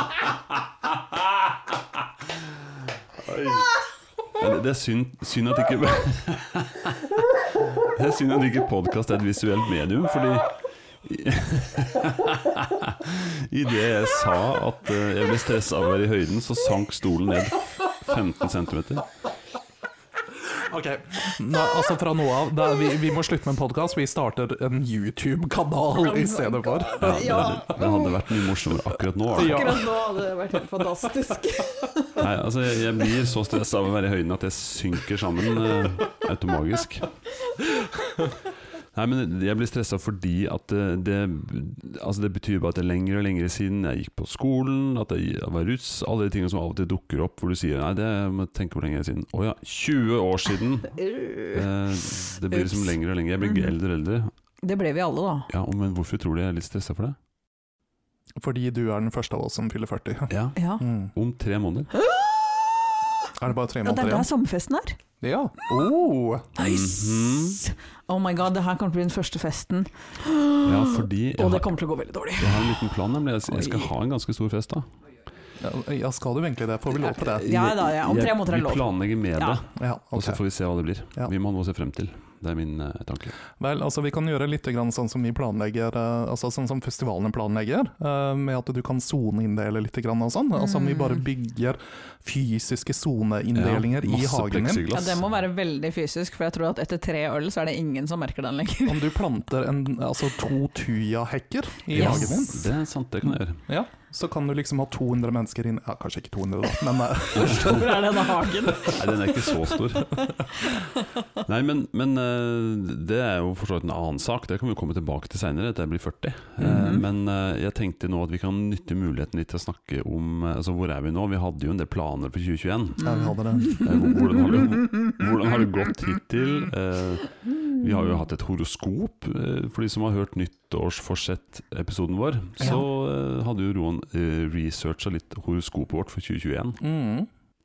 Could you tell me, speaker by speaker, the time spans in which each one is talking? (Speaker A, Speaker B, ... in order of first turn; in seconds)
Speaker A: 3.2-3.7, 4.3-7.2, 7.8-19.1, 27.0-29.8, 32.2-37.1, 38.9-54.3, 55.5-57.2, 60.3-60.6, 61.1-61.9, 66.6-67.6, 70.7-71.7, 72.4-74.9, 77.5-83.4, 93.5-95.2, 101.9-103.6, 107.4-107.7, 108.8-110.2, 111.5-123.0, 123.8-136.8
Speaker B: 20.5-27.8, 29.3-30.0, 58.4-61.1, 63.4-64.3, 65.2-66.6, 75.6-77.7, 79.8-80.4, 83.6-94.8, 98.9-102.7, 103.7-108.5, 116.6-117.0, 123.0-123.9, 136.8-137.3
Speaker C: 26.0-28.1, 29.4-32.3, 51.0-51.6, 52.5-53.7, 54.6-55.5, 60.6-60.9, 62.0-62.5, 63.8-65.0, 66.6-72.8, 73.5-73.9, 77.0-79.6, 90.6-91.2, 94.9-99.2, 102.0-102.5, 107.3-111.1, 116.6-117.0, 123.0-123.9